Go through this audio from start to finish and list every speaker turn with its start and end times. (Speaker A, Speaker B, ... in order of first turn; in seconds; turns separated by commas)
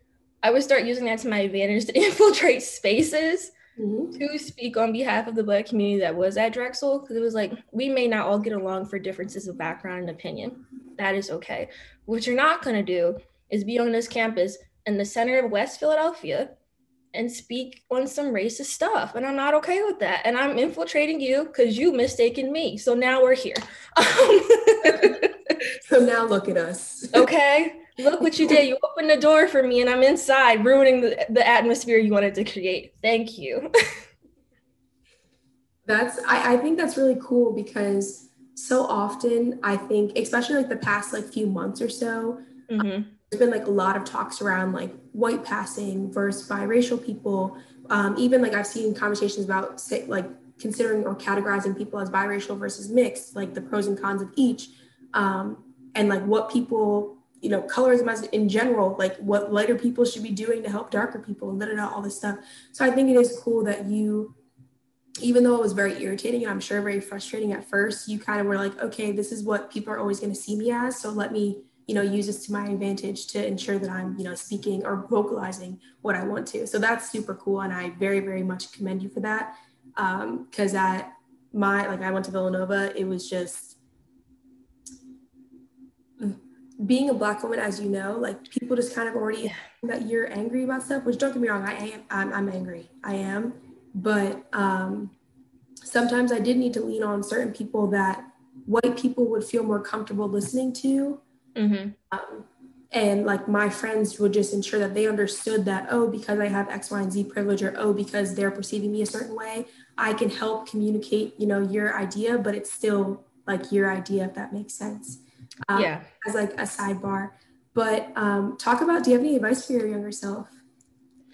Speaker A: 0.4-3.5, Speaker B: 3.8-4.2, Speaker A: 4.2-16.5, Speaker A: 17.1-25.3, Speaker B: 25.8-27.3, Speaker A: 27.1-33.7, Speaker B: 35.9-42.5, Speaker A: 42.7-43.1, Speaker B: 43.3-64.3, Speaker B: 65.2-83.8, Speaker B: 86.2-95.1, Speaker B: 95.8-101.2, Speaker A: 101.5-102.0, Speaker B: 102.1-120.6, Speaker A: 115.7-116.1